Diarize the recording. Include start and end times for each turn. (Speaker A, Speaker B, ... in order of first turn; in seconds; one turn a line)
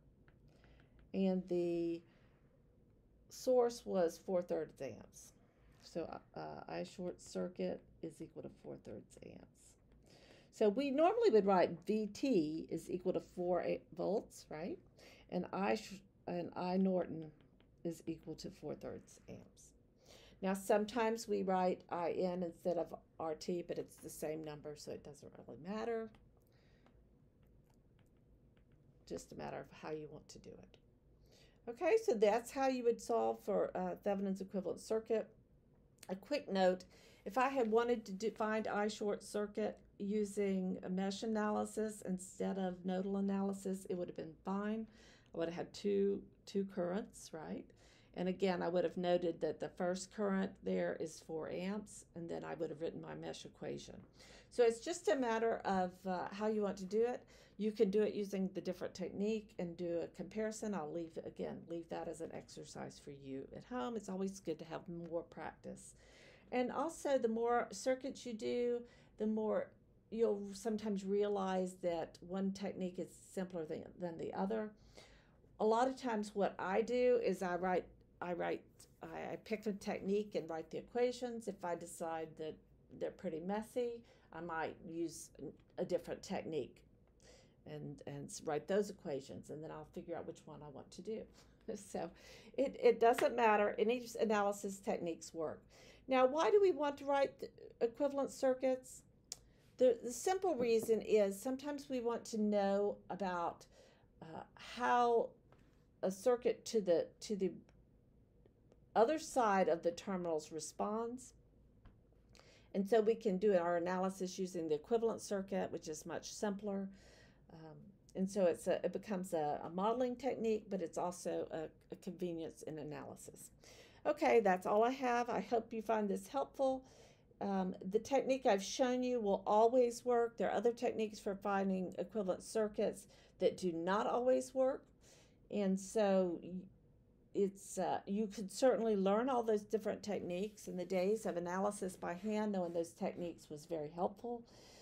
Speaker A: 1.1-2.0
Speaker A: 3.3-9.8
Speaker A: 10.5-19.7
Speaker A: 20.4-26.1
Speaker A: 29.1-30.8
Speaker A: 31.7-35.3
Speaker A: 36.1-65.9
Speaker A: 66.5-74.7
Speaker A: 75.6-86.9
Speaker A: 87.6-99.0
Speaker A: 99.8-103.7
Speaker A: 104.2-105.3
Speaker A: 106.0-107.6
Speaker A: 108.9-111.3
Speaker A: 112.7-116.9
Speaker A: 117.5-123.5
Speaker A: 124.0-126.8
Speaker A: 127.4-134.9
Speaker A: 135.5-136.7
Speaker A: 137.3-144.5